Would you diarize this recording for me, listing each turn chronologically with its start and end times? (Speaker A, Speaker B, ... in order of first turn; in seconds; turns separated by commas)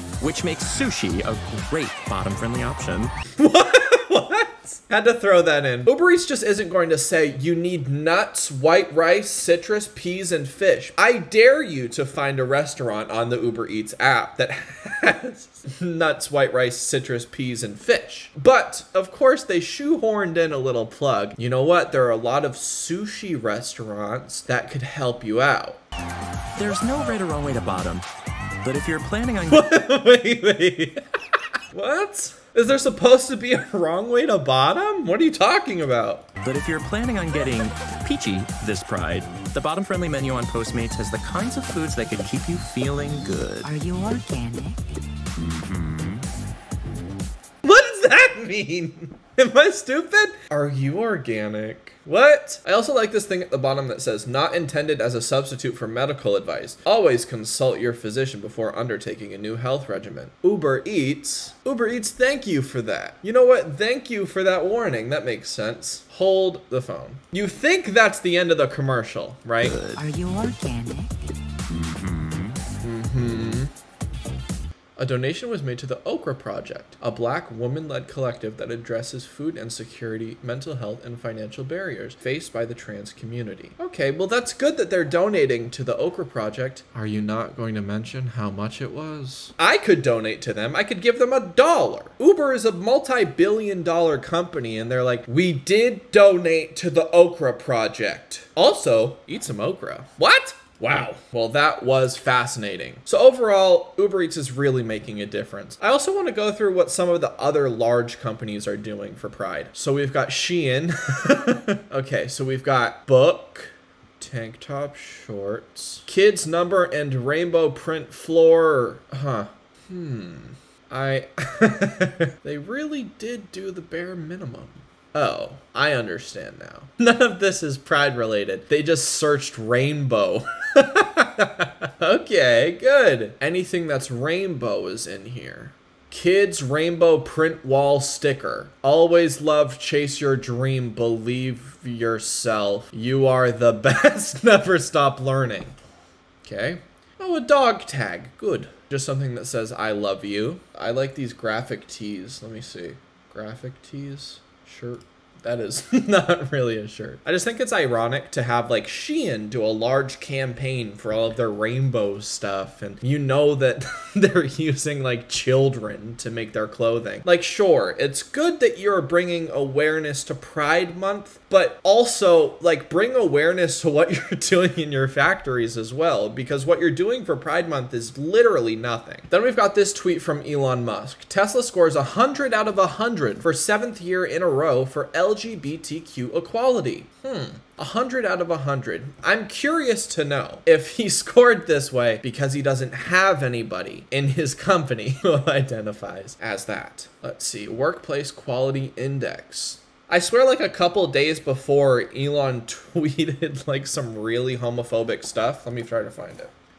Speaker A: 0.2-3.1, Speaker B: 3.4-25.8, Speaker A: 26.6-28.1, Speaker A: 28.6-29.7, Speaker B: 29.5-31.0, Speaker B: 31.7-36.3, Speaker A: 36.4-43.7, Speaker C: 43.6-44.8, Speaker A: 45.4-46.2, Speaker B: 47.6-69.8, Speaker A: 69.6-70.0, Speaker C: 70.0-71.1, Speaker A: 71.7-72.6, Speaker B: 72.8-73.7, Speaker B: 75.0-145.7, Speaker B: 146.4-206.5